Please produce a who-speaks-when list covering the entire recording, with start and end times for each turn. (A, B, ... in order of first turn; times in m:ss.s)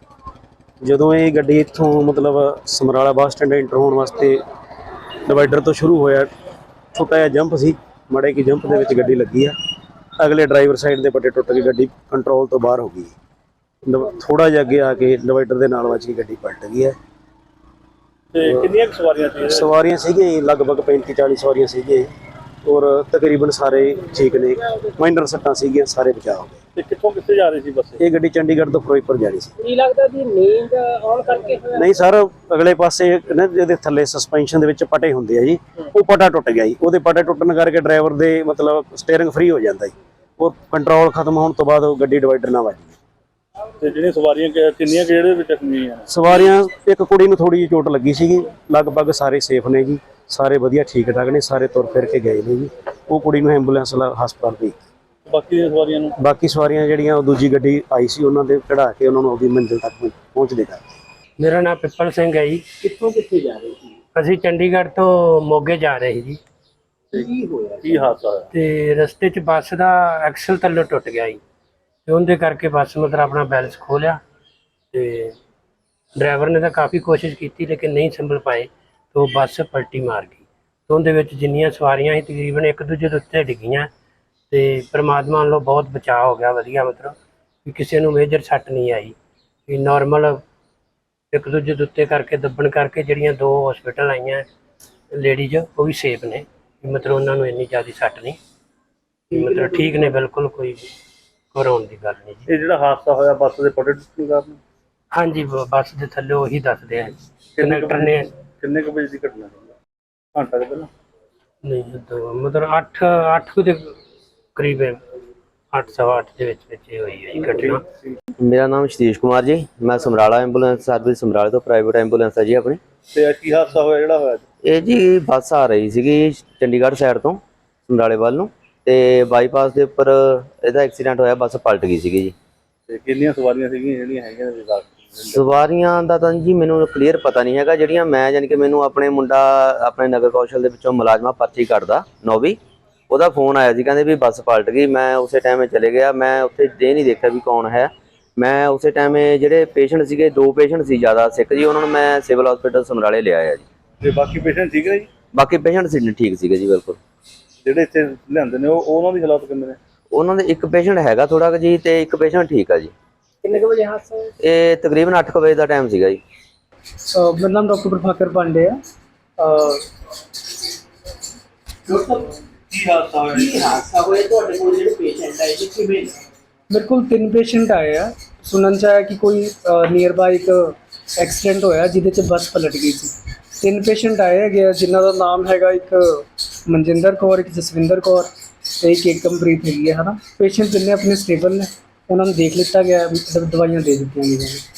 0:00.8-0:04.4 A
0:05.2-0:06.3 A
0:06.9-0:09.6 A
0:10.2-0:13.1 A
0:13.8-0:17.0 A
0:18.3-0:19.7 B
0:18.4-0:18.7 A
0:19.4-0:22.1 A
0:22.6-0:26.6 A
0:26.8-0:28.0 B
0:28.0-0:29.6 A
0:29.6-0:31.9 C
0:31.7-0:43.0 A
0:43.8-0:46.1 B
0:46.1-0:54.8 A
0:55.3-0:56.2 B
0:56.2-1:00.8 A
1:01.4-1:02.7 D
1:02.8-1:04.0 C
1:04.2-1:06.4 D
1:07.2-1:08.1 C
1:07.8-1:08.5 B
1:08.5-1:11.4 D
1:12.1-1:14.2 D
1:14.9-1:15.4 D
1:16.2-1:23.9 D
1:24.5-1:29.2 D
1:29.7-1:30.4 D
1:31.3-1:34.5 D
1:35.1-1:38.4 D
1:39.3-1:40.9 D
1:41.5-1:42.5 D
1:42.5-1:44.6 B
1:45.1-1:48.3 D
1:47.6-1:49.7 B
1:50.4-1:50.9 B
1:51.6-1:54.0 D
1:54.6-1:55.0 D
1:55.7-1:57.8 D
1:58.4-2:02.8 E
2:03.1-2:04.4 B
2:04.6-2:12.3 E
2:12.9-2:15.5 B
2:15.3-2:22.6 E
2:23.1-2:33.6 E
2:34.0-2:35.1 B
2:35.3-2:37.0 E
2:37.6-2:39.8 B
2:40.1-2:42.9 E
2:43.4-2:44.3 C
2:44.4-2:46.2 E
2:47.1-2:48.8 F
2:49.4-2:49.8 F
2:51.9-2:52.3 C
2:52.7-2:53.6 B
2:53.0-2:56.2 C
2:56.7-3:14.6 F